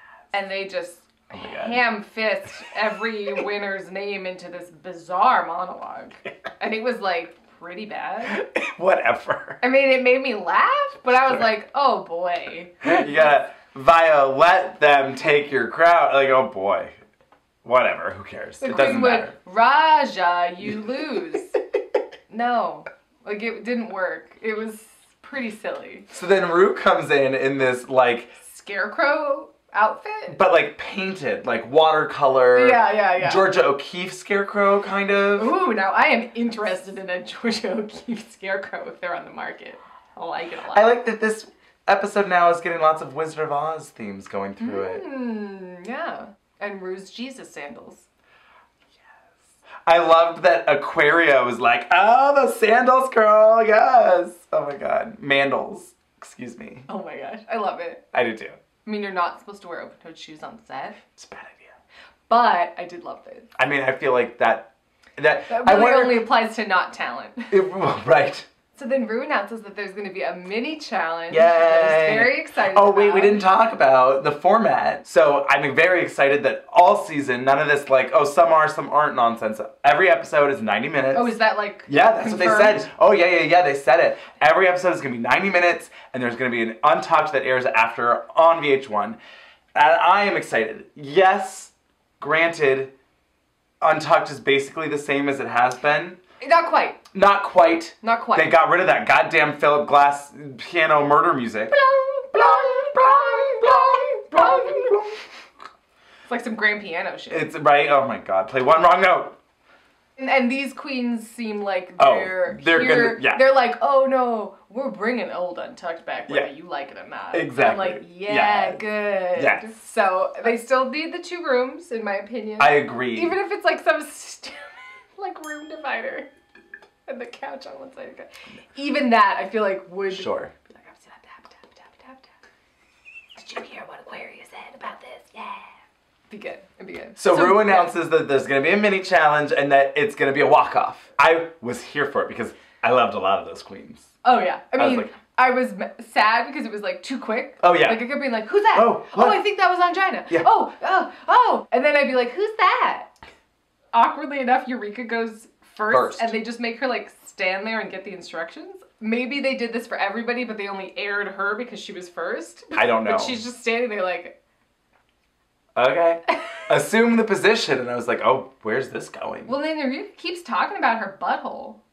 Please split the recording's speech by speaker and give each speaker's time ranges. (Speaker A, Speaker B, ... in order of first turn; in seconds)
Speaker A: 0.3-8.4, 9.6-13.3, 18.6-21.5, 22.3-26.1, 28.4-30.4, 32.5-33.5, 35.4-40.9, 44.6-48.1, 56.9-58.0, 58.8-61.0, 62.3-63.5, 65.5-67.5, 68.7-73.4, 81.1-82.8, 96.4-97.0, 98.0-98.5, 101.7-104.9, 106.3-107.5, 110.2-126.3, 127.1-132.3, 133.4-135.7, 136.3-137.9, 144.2-153.1, 153.9-164.3, 169.4-171.8
Speaker B: 1.3-1.8, 8.3-9.6, 12.8-16.9, 17.6-19.3, 26.1-28.4, 30.3-35.5, 40.7-45.0, 49.9-56.9, 58.1-58.6, 61.2-61.7, 63.6-66.3, 67.5-68.5, 71.3-81.3, 81.8-89.2, 89.7-92.9, 93.8-96.2, 97.1-101.7, 102.3-105.2, 107.3-109.4, 112.0-113.5, 117.3-118.8, 119.3-119.7, 122.6-123.3, 130.1-130.5, 137.2-144.1, 144.8-145.1, 147.6-148.2, 148.7-149.4, 155.9-156.3, 162.8-163.4, 165.7-169.5